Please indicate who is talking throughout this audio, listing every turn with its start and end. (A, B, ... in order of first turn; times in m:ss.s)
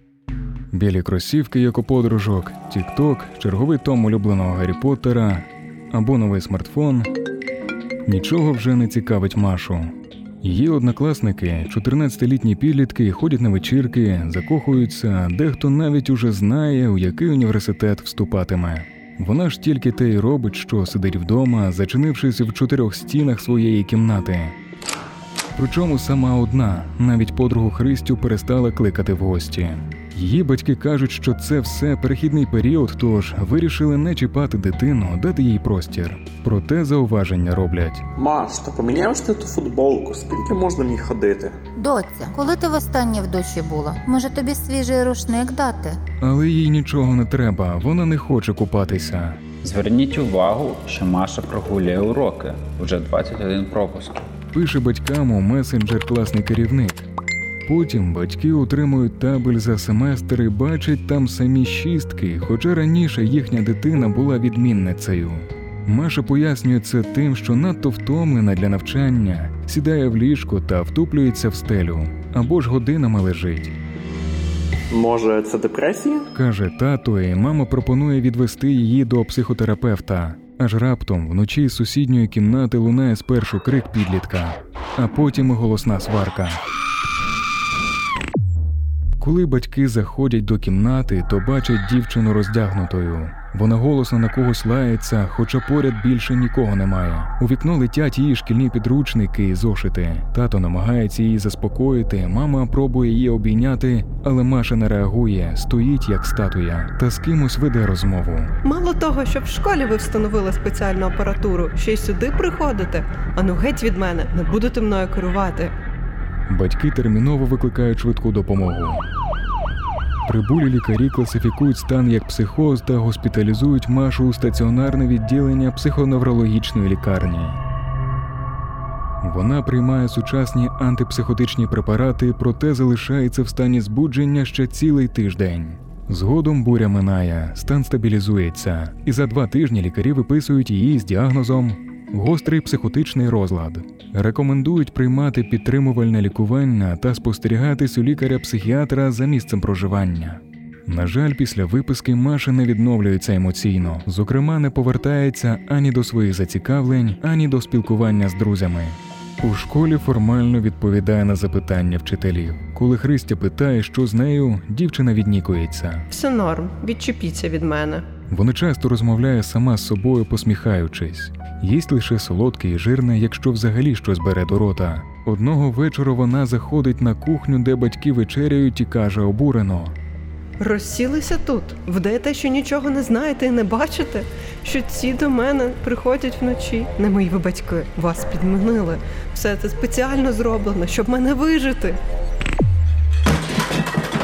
0:00.7-0:07.1 A
0:08.1-0:24.6 A
0:25.6-0:38.1 A
0:38.2-0:41.6 B
0:41.8-0:46.0 C
0:46.2-0:49.4 A
0:49.6-0:54.3 D
0:54.5-0:57.1 A
0:57.7-1:13.7 A
1:14.9-1:16.2 B
1:16.3-1:26.6 A
1:29.2-1:48.5 A
1:48.6-1:55.7 E
1:56.5-1:59.0 A
2:00.2-2:07.6 A
2:09.2-2:46.1 A
2:46.1-2:48.1 E
2:48.3-3:00.0 A
3:00.6-3:12.0 E